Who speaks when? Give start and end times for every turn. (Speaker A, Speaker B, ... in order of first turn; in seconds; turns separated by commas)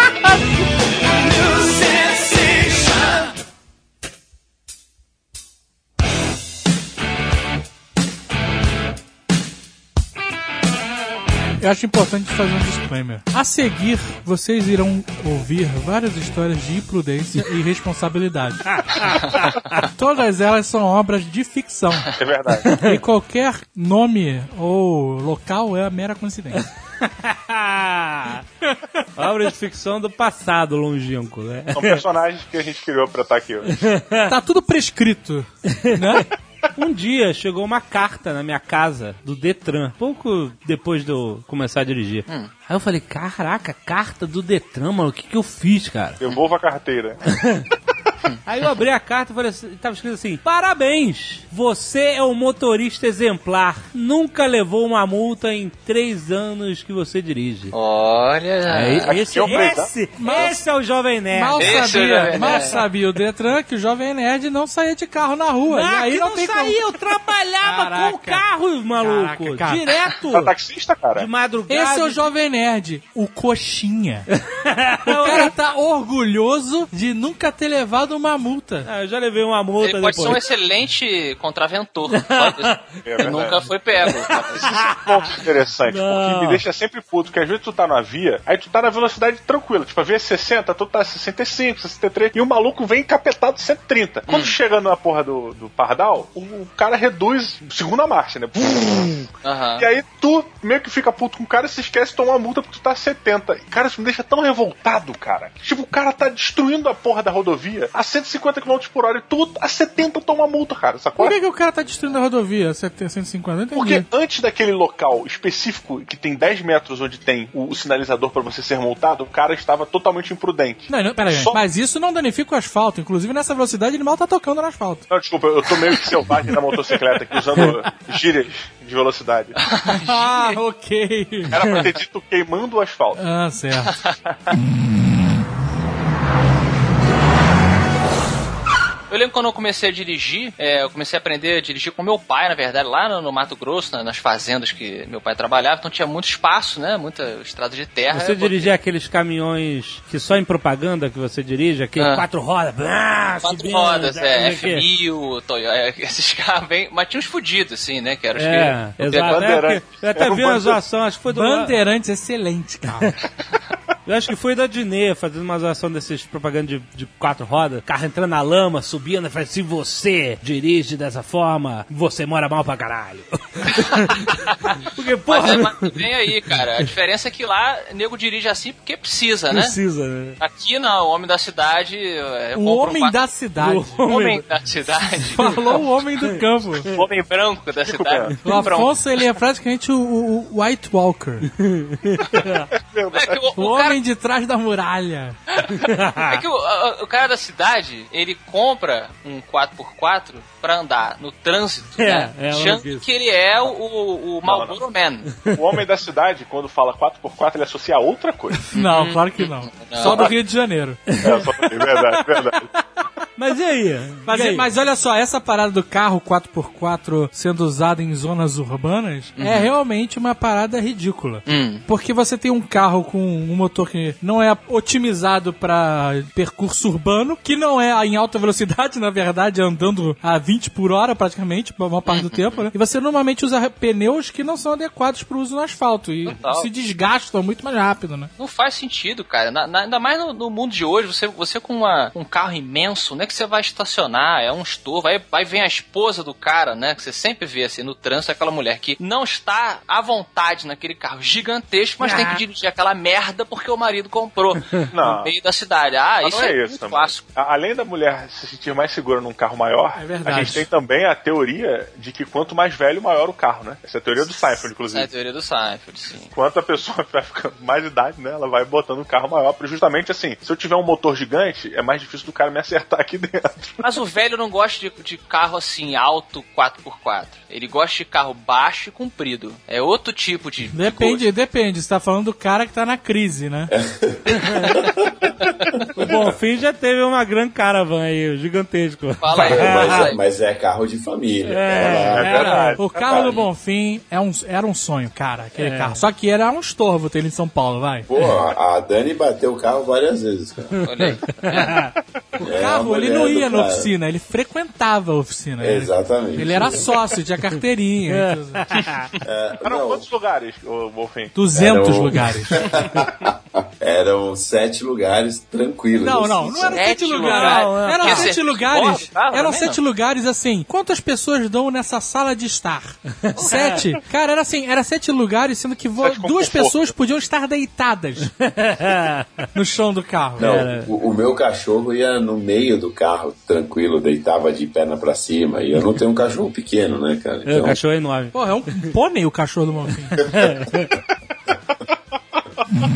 Speaker A: 1.2-3.3, Speaker B: 11.6-18.8, Speaker B: 19.8-22.1, Speaker C: 22.2-22.7, Speaker A: 22.7-23.0, Speaker B: 22.7-26.6, Speaker A: 27.1-28.4, Speaker A: 29.1-32.0, Speaker C: 31.7-33.8, Speaker A: 33.7-34.3, Speaker B: 34.2-36.3, Speaker A: 35.7-46.2, Speaker C: 46.2-47.2, Speaker A: 47.3-47.7, Speaker A: 48.5-57.7, Speaker D: 57.7-59.2, Speaker A: 58.7-62.8, Speaker C: 59.1-59.9, Speaker B: 60.1-60.6, Speaker B: 61.3-66.8, Speaker D: 61.6-62.8, Speaker A: 65.7-70.5, Speaker B: 67.6-68.4, Speaker B: 69.0-69.9, Speaker C: 70.3-71.3, Speaker A: 71.1-72.2, Speaker B: 71.7-74.3, Speaker A: 74.3-75.5, Speaker B: 75.0-78.9, Speaker A: 78.8-80.4, Speaker D: 79.8-84.8, Speaker A: 82.1-82.9, Speaker C: 83.0-83.7, Speaker A: 84.0-86.6, Speaker C: 84.9-111.3, Speaker D: 94.3-94.5, Speaker D: 99.4-99.8, Speaker B: 111.2-114.0, Speaker C: 113.7-121.6, Speaker B: 120.9-125.1, Speaker C: 125.1-129.6, Speaker D: 129.6-130.6, Speaker B: 129.9-131.6, Speaker C: 131.5-133.2, Speaker D: 131.6-131.9, Speaker B: 133.2-134.0, Speaker D: 133.9-134.2, Speaker D: 139.1-148.7, Speaker A: 148.1-154.8, Speaker D: 152.0-152.2, Speaker D: 153.4-159.6, Speaker A: 158.3-161.8, Speaker C: 159.2-160.8, Speaker B: 161.3-163.2, Speaker A: 164.1-176.9, Speaker D: 173.7-174.7, Speaker D: 175.3-179.8, Speaker A: 179.5-180.4, Speaker D: 180.4-183.2, Speaker B: 182.5-184.1, Speaker A: 183.6-184.4, Speaker D: 184.1-185.8, Speaker B: 185.2-186.9, Speaker A: 185.4-187.0, Speaker D: 186.8-189.0, Speaker C: 187.8-188.4, Speaker B: 188.4-191.5, Speaker A: 191.6-192.7, Speaker C: 192.8-193.5, Speaker D: 193.1-194.0, Speaker B: 193.6-195.4, Speaker D: 195.6-205.5, Speaker A: 195.8-196.4, Speaker A: 202.0-203.0, Speaker C: 204.4-204.8, Speaker C: 205.5-208.7, Speaker B: 208.7-211.2, Speaker D: 208.7-210.2, Speaker C: 210.0-210.3, Speaker A: 211.2-211.5, Speaker C: 211.2-212.7, Speaker A: 213.4-214.7, Speaker B: 214.2-238.3, Speaker D: 219.4-219.7, Speaker D: 221.5-221.8, Speaker D: 232.1-232.7, Speaker D: 236.2-236.7, Speaker D: 238.4-257.3, Speaker A: 252.0-252.4, Speaker C: 254.9-255.3, Speaker C: 256.2-265.1, Speaker B: 259.9-260.7, Speaker D: 264.2-266.3, Speaker C: 266.3-273.9, Speaker D: 273.8-281.2, Speaker B: 280.7-283.7, Speaker E: 283.7-285.3, Speaker A: 285.9-290.1, Speaker E: 286.0-286.3, Speaker D: 289.2-290.2, Speaker E: 289.4-293.4, Speaker A: 291.4-292.8, Speaker C: 292.2-293.0, Speaker B: 292.2-298.1, Speaker D: 293.1-293.4, Speaker A: 295.6-296.0, Speaker E: 298.1-300.8, Speaker A: 300.7-301.9, Speaker D: 300.8-301.7, Speaker B: 302.4-308.8, Speaker E: 302.4-303.9, Speaker E: 305.6-306.9, Speaker A: 308.1-309.1, Speaker E: 309.2-310.1, Speaker C: 309.6-311.4, Speaker B: 311.3-312.6, Speaker E: 311.5-317.1, Speaker B: 316.0-328.3, Speaker D: 316.7-319.8, Speaker A: 317.2-318.3, Speaker A: 323.2-323.7, Speaker D: 323.3-323.9, Speaker C: 326.0-326.9, Speaker A: 328.4-329.4, Speaker B: 329.5-330.5, Speaker E: 330.4-337.8, Speaker A: 330.4-330.9, Speaker A: 337.4-338.8, Speaker B: 338.3-340.2, Speaker A: 340.2-340.9